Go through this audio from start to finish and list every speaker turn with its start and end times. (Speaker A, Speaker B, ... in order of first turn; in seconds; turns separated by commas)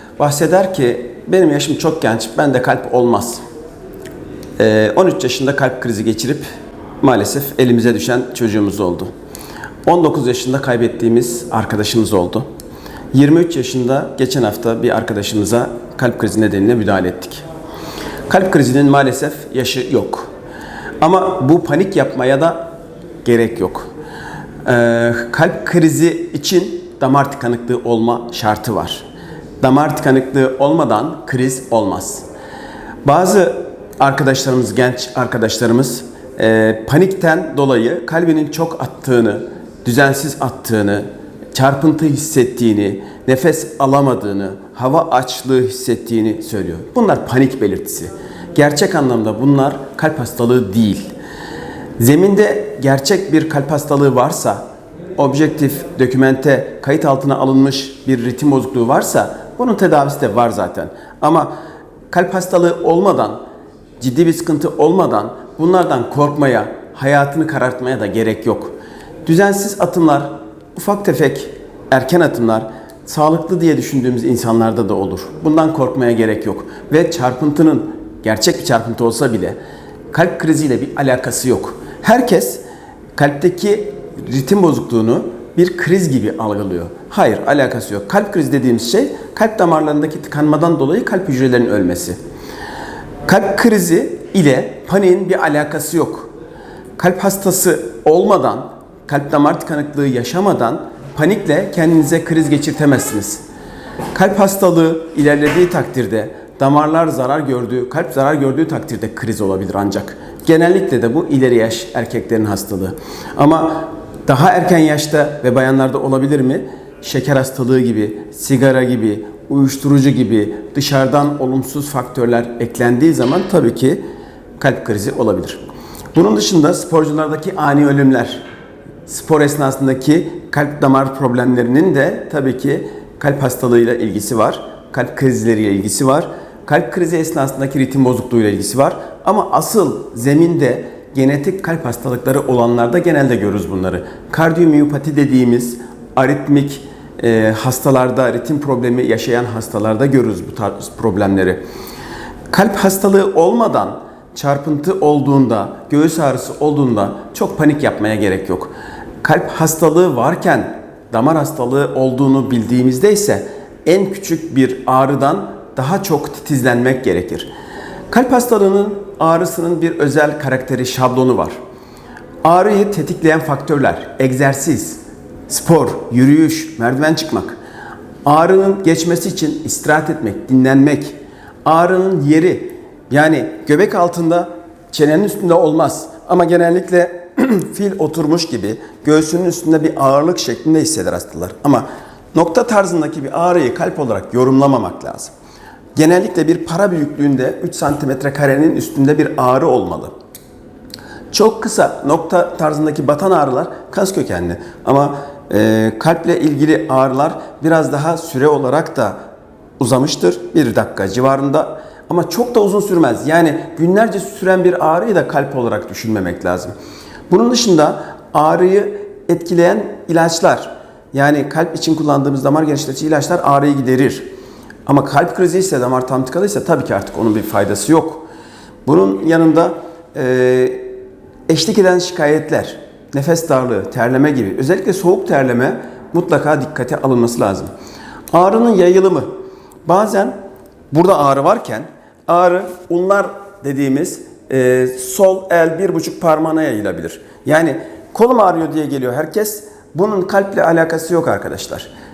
Speaker A: 0.2-3.4, Speaker A: 4.6-6.4, Speaker A: 7.0-9.1, Speaker A: 9.8-12.5, Speaker A: 13.1-17.4, Speaker A: 18.3-20.3, Speaker A: 21.0-22.7, Speaker A: 23.2-23.9, Speaker A: 24.6-29.1, Speaker A: 29.6-32.3, Speaker A: 33.0-51.1, Speaker A: 52.0-54.6, Speaker A: 55.2-61.5, Speaker A: 62.1-63.4, Speaker A: 64.0-68.7, Speaker A: 69.2-79.6, Speaker A: 80.1-82.6, Speaker A: 83.2-92.2, Speaker A: 93.3-96.3, Speaker A: 97.0-103.4, Speaker A: 104.1-124.0, Speaker A: 124.6-125.6, Speaker A: 126.1-128.4, Speaker A: 129.1-151.6, Speaker A: 152.5-158.7, Speaker A: 159.2-167.5, Speaker A: 168.1-171.6, Speaker A: 172.4-177.6, Speaker A: 178.2-195.3, Speaker A: 195.9-200.1, Speaker A: 201.3-209.2, Speaker A: 209.8-216.7, Speaker A: 217.3-224.3, Speaker A: 224.8-228.2, Speaker A: 228.8-230.8, Speaker A: 231.5-237.7, Speaker A: 238.3-239.3, Speaker A: 239.8-240.3, Speaker A: 240.9-251.9